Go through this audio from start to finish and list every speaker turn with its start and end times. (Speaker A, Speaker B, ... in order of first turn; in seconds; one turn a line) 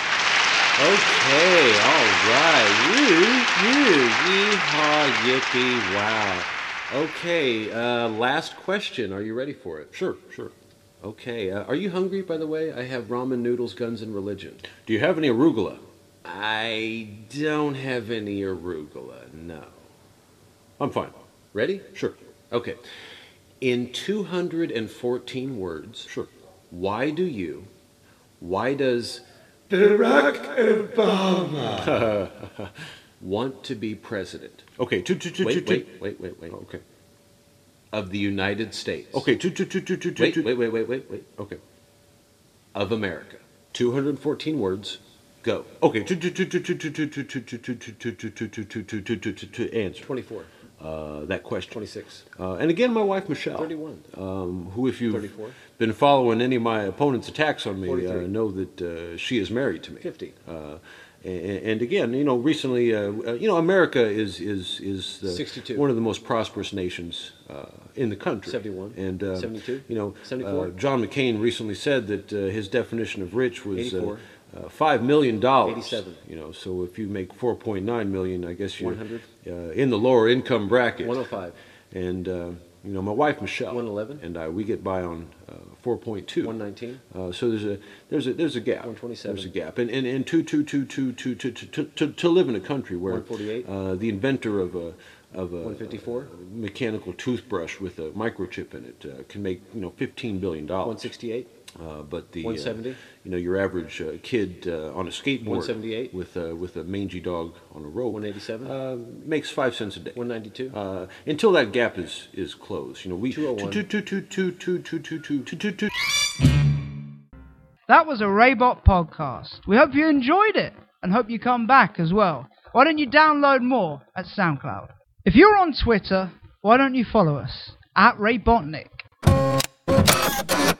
Speaker A: 0.8-9.9
Speaker B: 9.9-10.5
Speaker A: 11.0-14.7
Speaker B: 14.7-15.8
Speaker A: 16.2-19.8
Speaker B: 20.8-21.1
Speaker A: 21.5-21.9
Speaker B: 21.9-22.2
Speaker A: 22.5-22.8
Speaker A: 23.6-26.1
Speaker A: 26.7-27.7
Speaker A: 28.4-29.2
Speaker B: 29.7-32.7
Speaker A: 31.8-32.1
Speaker A: 33.2-34.7
Speaker B: 34.8-36.8
Speaker A: 35.4-36.6
Speaker A: 37.9-39.3
Speaker B: 39.1-40.6
Speaker A: 40.2-41.6
Speaker A: 42.8-43.4
Speaker B: 43.7-50.1
Speaker A: 50.0-50.5
Speaker B: 50.8-81.3
Speaker A: 51.7-52.2
Speaker A: 53.5-54.1
Speaker A: 55.1-55.6
Speaker A: 57.8-58.3
Speaker A: 60.0-60.4
Speaker A: 65.2-65.9
Speaker A: 68.4-70.7
Speaker A: 73.7-74.2
Speaker A: 75.6-76.2
Speaker A: 78.8-79.3
Speaker A: 81.0-81.6
Speaker B: 81.9-86.6
Speaker A: 83.7-84.2
Speaker A: 86.4-87.0
Speaker B: 87.1-101.1
Speaker A: 88.8-89.5
Speaker A: 93.1-93.7
Speaker A: 95.6-96.3
Speaker A: 100.8-101.5
Speaker B: 101.8-110.2
Speaker A: 102.4-103.0
Speaker A: 105.4-106.1
Speaker A: 108.1-108.7
Speaker A: 110.2-110.8
Speaker B: 110.7-115.9
Speaker A: 113.3-113.8
Speaker C: 117.9-129.0